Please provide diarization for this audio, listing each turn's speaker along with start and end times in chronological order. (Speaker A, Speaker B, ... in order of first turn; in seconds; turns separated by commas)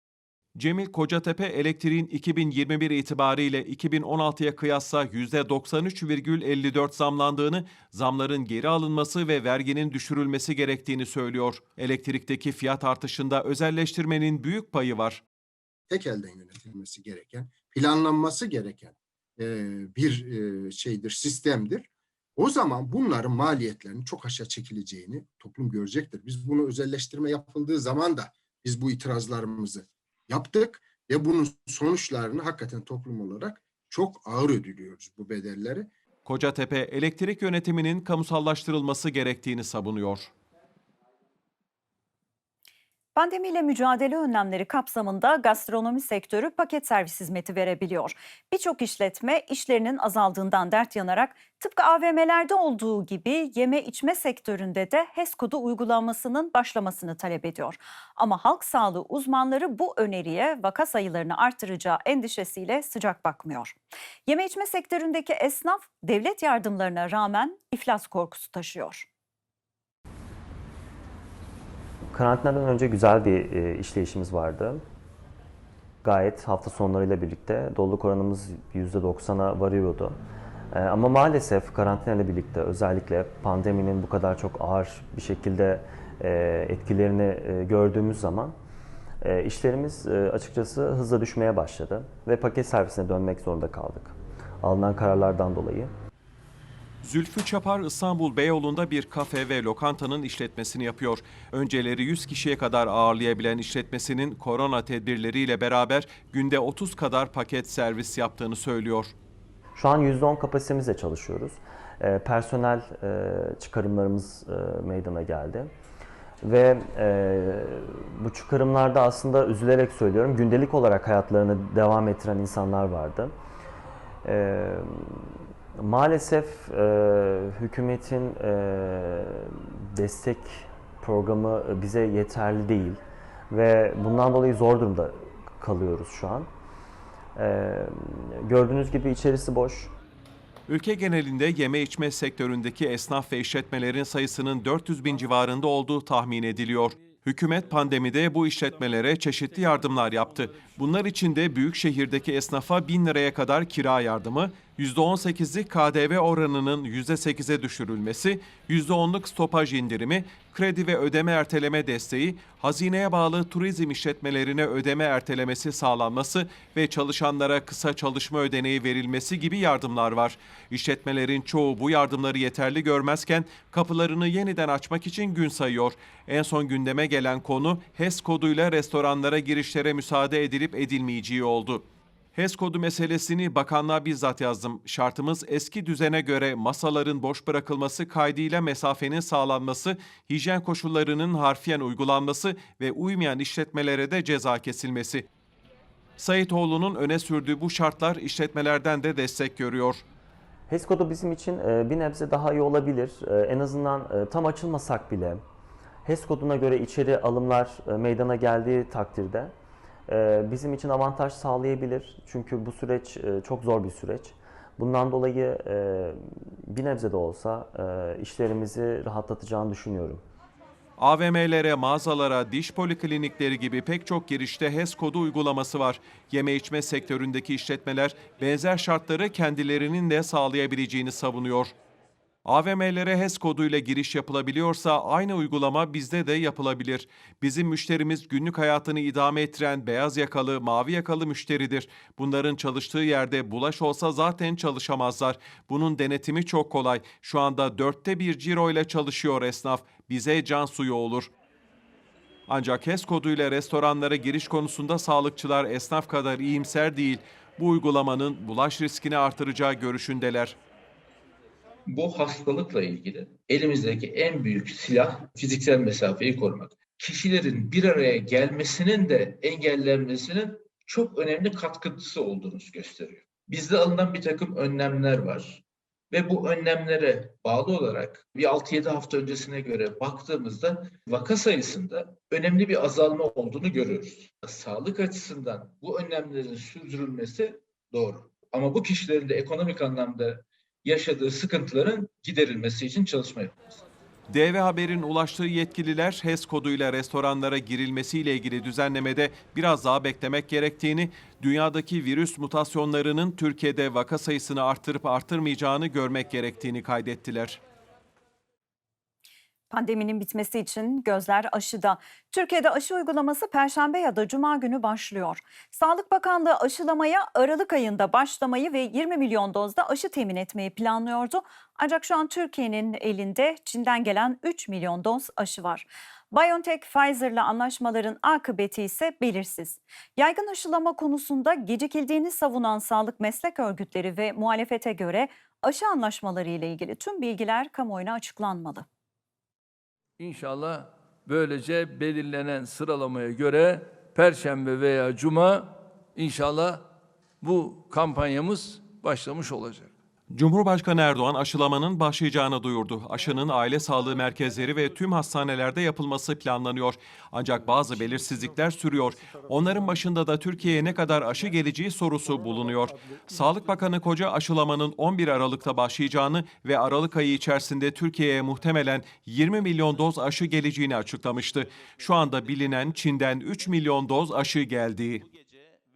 Speaker A: 0.6-15.2, Speaker B: 15.9-21.9, Speaker B: 22.4-35.9, Speaker A: 36.2-40.3, Speaker C: 43.1-69.0, Speaker D: 72.1-74.8, Speaker D: 76.0-80.1, Speaker D: 80.7-88.5, Speaker D: 89.2-95.9, Speaker A: 97.0-109.1, Speaker D: 109.8-115.7, Speaker D: 116.4-123.3, Speaker D: 124.2-125.3, Speaker D: 125.8-133.0, Speaker D: 133.5-136.5, Speaker D: 137.3-139.9, Speaker A: 140.7-195.3, Speaker A: 196.2-200.0, Speaker D: 200.7-205.4, Speaker D: 206.0-209.5, Speaker D: 210.1-216.2, Speaker D: 216.7-220.2, Speaker A: 221.0-231.7, Speaker A: 232.4-251.3, Speaker A: 252.5-260.6, Speaker E: 261.9-293.8, Speaker A: 294.3-307.6, Speaker C: 309.7-338.9, Speaker F: 340.2-346.8, Speaker F: 347.4-349.9, Speaker A: 350.3-375.2